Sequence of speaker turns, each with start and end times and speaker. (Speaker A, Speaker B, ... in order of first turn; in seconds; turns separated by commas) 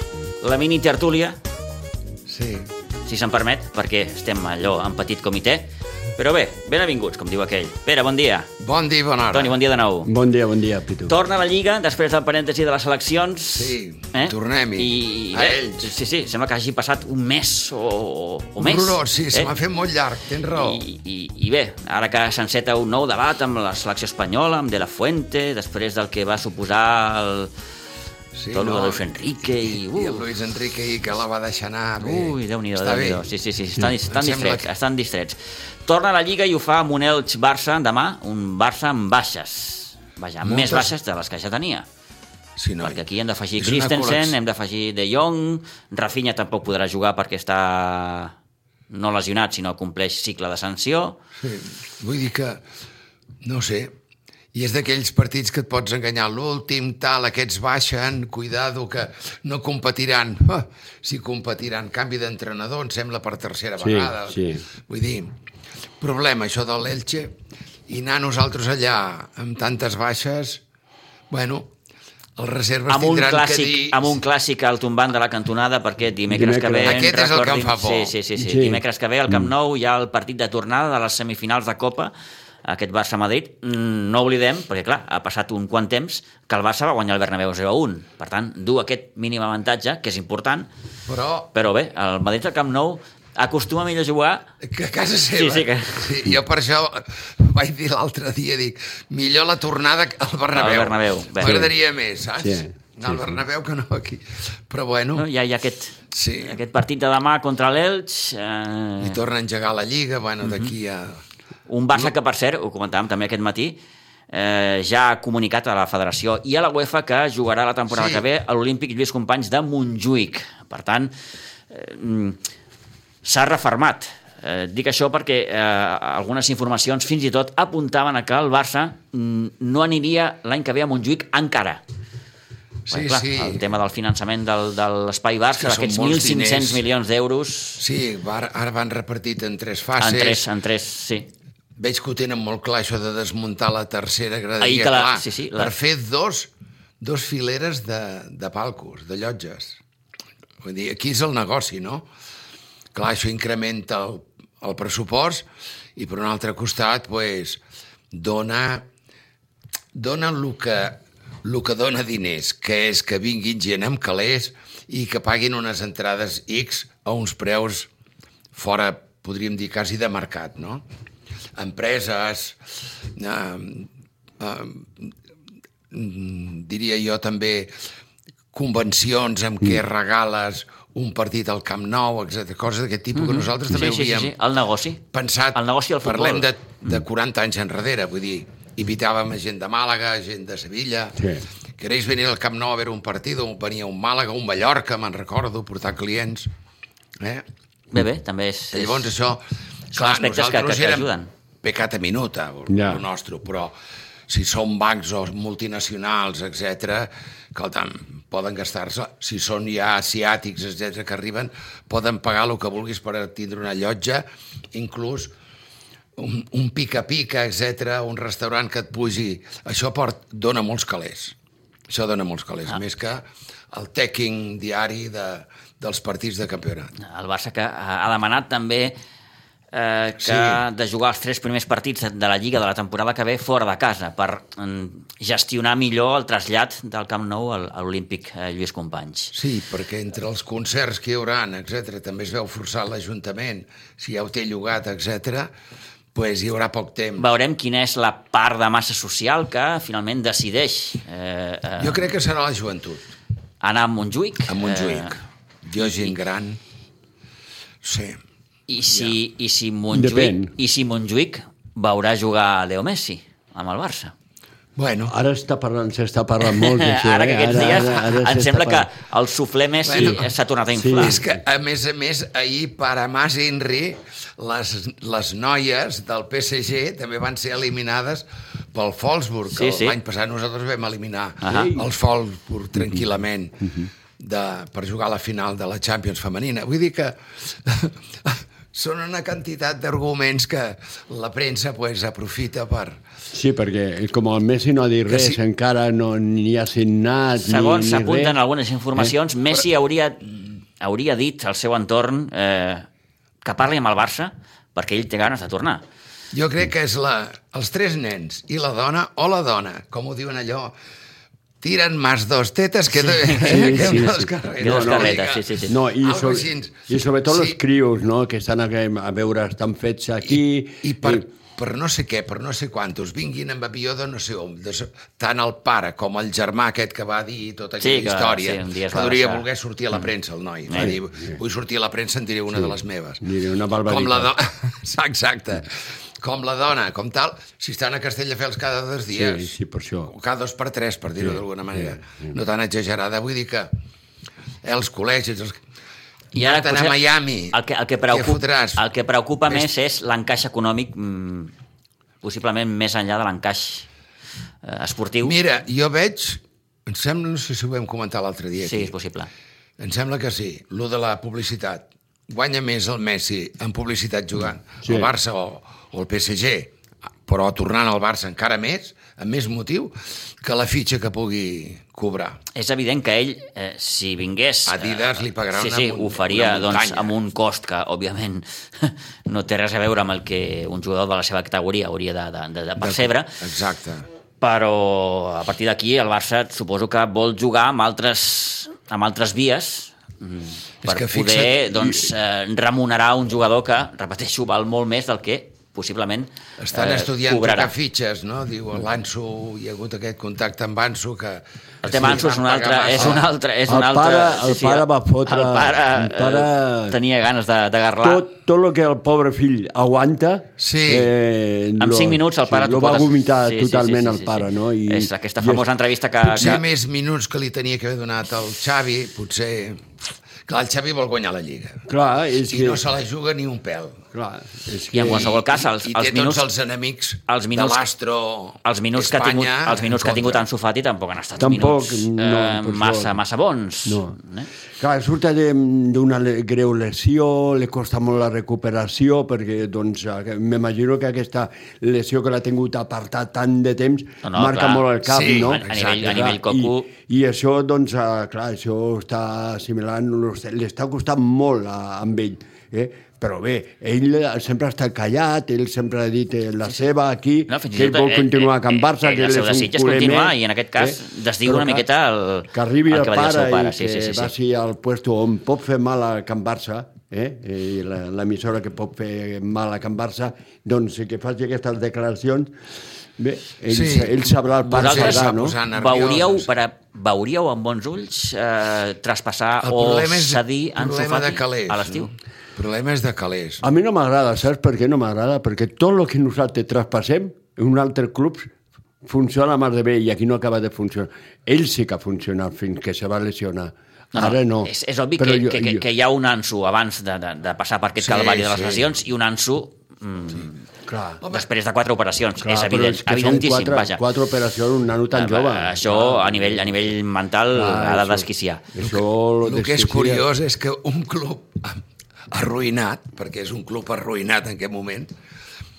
Speaker A: 0.4-1.4, Speaker B: 2.3-2.7, Speaker A: 3.1-8.5, Speaker B: 8.6-9.6, Speaker A: 9.3-10.1, Speaker C: 10.1-11.1, Speaker A: 11.1-19.5, Speaker B: 13.6-15.9, Speaker B: 18.6-20.8, Speaker A: 20.5-27.5, Speaker B: 28.4-33.2, Speaker A: 28.5-30.2, Speaker A: 32.0-41.9, Speaker B: 34.0-34.7, Speaker B: 40.4-40.9, Speaker B: 42.6-43.0, Speaker A: 42.8-48.4, Speaker B: 43.6-44.4, Speaker A: 48.9-51.2, Speaker B: 51.4-52.6, Speaker B: 53.4-53.9, Speaker B: 54.5-65.3, Speaker C: 63.8-64.7, Speaker B: 66.0-67.3, Speaker B: 67.9-70.6, Speaker B: 71.3-71.7, Speaker B: 72.4-74.2, Speaker A: 72.9-82.1, Speaker C: 76.3-77.0, Speaker B: 76.8-78.1, Speaker C: 78.4-79.5, Speaker A: 82.7-90.7, Speaker B: 91.1-91.5, Speaker A: 91.5-94.5, Speaker B: 94.6-105.3, Speaker A: 95.4-96.3, Speaker A: 100.5-101.6, Speaker C: 101.4-101.7, Speaker C: 102.4-103.2, Speaker A: 105.2-109.2, Speaker B: 106.1-106.6, Speaker B: 109.0-111.2, Speaker A: 110.4-110.7, Speaker A: 111.7-113.8, Speaker A: 114.3-121.1, Speaker B: 117.9-118.2, Speaker A: 121.7-122.4, Speaker A: 123.2-131.8, Speaker B: 132.9-133.6, Speaker A: 132.9-137.8, Speaker B: 135.5-136.8, Speaker B: 137.8-140.4, Speaker A: 140.0-141.3, Speaker B: 141.8-146.5, Speaker A: 144.6-145.7, Speaker B: 147.0-149.8, Speaker B: 150.6-152.1, Speaker B: 152.9-157.6, Speaker B: 158.1-158.8, Speaker B: 159.9-167.9, Speaker B: 168.5-170.8, Speaker B: 171.6-172.6, Speaker B: 173.2-173.9, Speaker B: 174.4-175.1, Speaker B: 175.9-177.7, Speaker B: 178.5-184.3, Speaker A: 183.1-185.0, Speaker B: 185.1-191.2, Speaker A: 185.5-186.5, Speaker C: 191.2-191.4, Speaker B: 191.8-196.5, Speaker A: 197.9-199.1, Speaker B: 198.7-201.1, Speaker A: 199.9-201.3, Speaker B: 201.6-203.7, Speaker C: 202.7-203.0, Speaker B: 204.3-215.3, Speaker B: 216.2-221.3, Speaker B: 221.9-226.9, Speaker A: 227.0-229.0, Speaker A: 229.7-239.3, Speaker B: 230.2-230.6, Speaker B: 239.3-245.5, Speaker B: 246.1-247.3, Speaker A: 247.2-252.1, Speaker B: 251.8-253.1, Speaker A: 253.6-255.2, Speaker B: 254.5-256.6, Speaker B: 257.8-258.2, Speaker A: 258.7-264.1, Speaker C: 259.9-260.5, Speaker B: 264.8-265.1, Speaker C: 265.1-268.9, Speaker A: 266.4-271.2, Speaker B: 269.9-270.3, Speaker C: 270.7-271.4, Speaker B: 270.9-293.0, Speaker A: 279.5-280.0, Speaker A: 281.4-281.7, Speaker C: 281.5-281.9, Speaker C: 293.3-298.4, Speaker B: 295.1-295.4, Speaker A: 297.4-300.2, Speaker A: 300.8-302.9, Speaker A: 303.4-305.8, Speaker B: 306.3-310.7, Speaker B: 311.6-317.6, Speaker A: 313.1-313.8, Speaker C: 313.4-321.2, Speaker A: 314.6-315.7, Speaker B: 320.2-333.2, Speaker A: 327.8-329.5, Speaker A: 330.7-331.0, Speaker C: 330.8-331.4, Speaker C: 332.5-334.3, Speaker B: 333.9-339.5, Speaker C: 339.1-340.1, Speaker B: 340.1-343.7, Speaker C: 341.2-342.4, Speaker B: 344.6-345.6, Speaker B: 346.3-347.6, Speaker A: 346.4-347.0, Speaker A: 347.5-351.5, Speaker B: 348.1-348.8, Speaker A: 352.2-353.9, Speaker A: 354.6-355.4, Speaker B: 355.2-358.9, Speaker A: 358.6-359.3, Speaker B: 359.8-366.7, Speaker C: 364.8-365.1, Speaker B: 367.3-372.4, Speaker A: 372.5-383.4, Speaker B: 374.7-377.1, Speaker B: 382.8-384.1, Speaker A: 384.4-397.7, Speaker B: 390.8-392.1, Speaker B: 396.6-403.2, Speaker A: 401.8-408.3, Speaker C: 403.7-407.0, Speaker C: 408.0-415.7, Speaker B: 410.6-411.1, Speaker A: 411.8-416.6, Speaker C: 416.2-416.6, Speaker B: 416.3-419.8, Speaker B: 420.5-421.9, Speaker C: 421.9-422.8, Speaker B: 422.5-424.0, Speaker C: 424.1-425.4, Speaker A: 424.9-426.5, Speaker B: 425.1-430.4, Speaker A: 427.3-427.8, Speaker A: 428.6-434.5, Speaker C: 431.4-433.2, Speaker C: 433.9-434.2, Speaker C: 434.8-461.9, Speaker A: 444.2-446.9, Speaker B: 445.1-446.1, Speaker A: 457.5-464.3, Speaker C: 462.5-472.5, Speaker C: 473.2-475.6, Speaker B: 473.7-474.2, Speaker A: 474.7-482.1, Speaker B: 474.7-476.5, Speaker B: 479.6-483.6, Speaker C: 483.6-488.5, Speaker C: 489.0-495.8, Speaker A: 494.1-500.6, Speaker B: 498.0-498.9, Speaker C: 500.9-501.2, Speaker B: 501.2-501.5, Speaker A: 501.3-504.0, Speaker C: 502.4-506.9, Speaker A: 505.1-508.6, Speaker C: 507.5-510.3, Speaker B: 508.8-515.1